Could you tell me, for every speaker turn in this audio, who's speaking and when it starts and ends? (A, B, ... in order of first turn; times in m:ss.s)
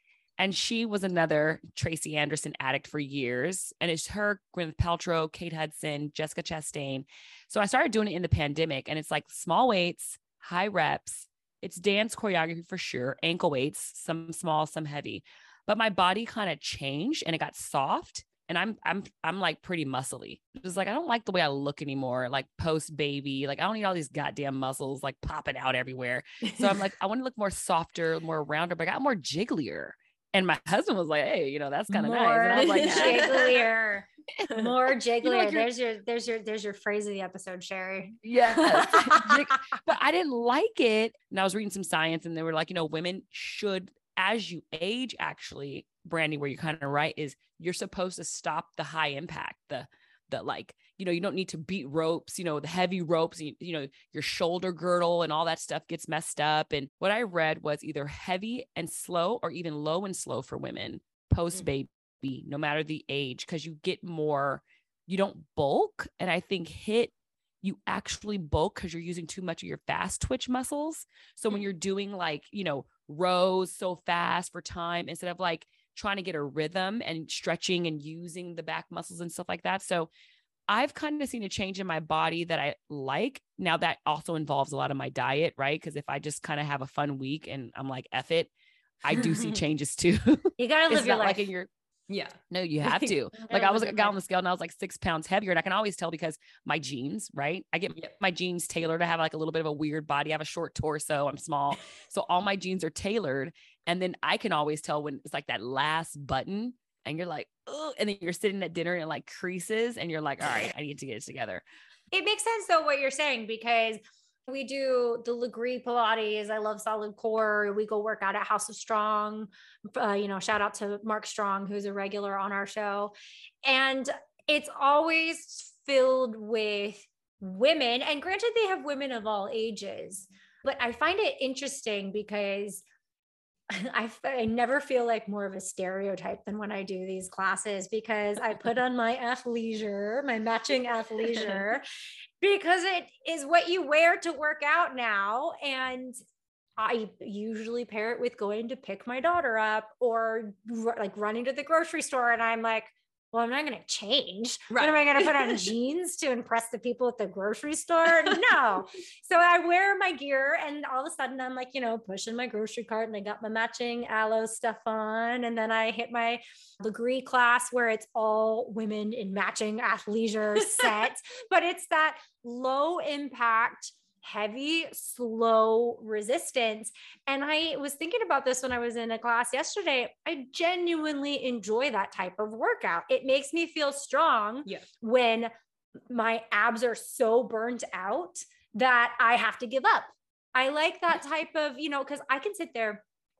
0:00.4-0:33.6 A
0:26.4-0:26.8 B
0:31.9-0:39.4 C
0:32.6-0:33.6 B
0:35.2-0:35.7 A
0:38.2-1:07.1 A
1:07.6-1:20.1 A
1:20.7-1:28.5 A
1:29.0-1:31.7 A
1:29.1-1:29.6 B
1:30.6-1:31.4 C
1:32.1-1:33.1 B
1:32.5-1:51.6 A
1:33.4-1:34.2 C
1:52.1-2:12.8 C
2:13.7-2:21.8 C
2:22.4-2:26.2 C
2:26.8-3:05.5 C
2:34.7-2:35.7 B
3:06.1-3:13.0 C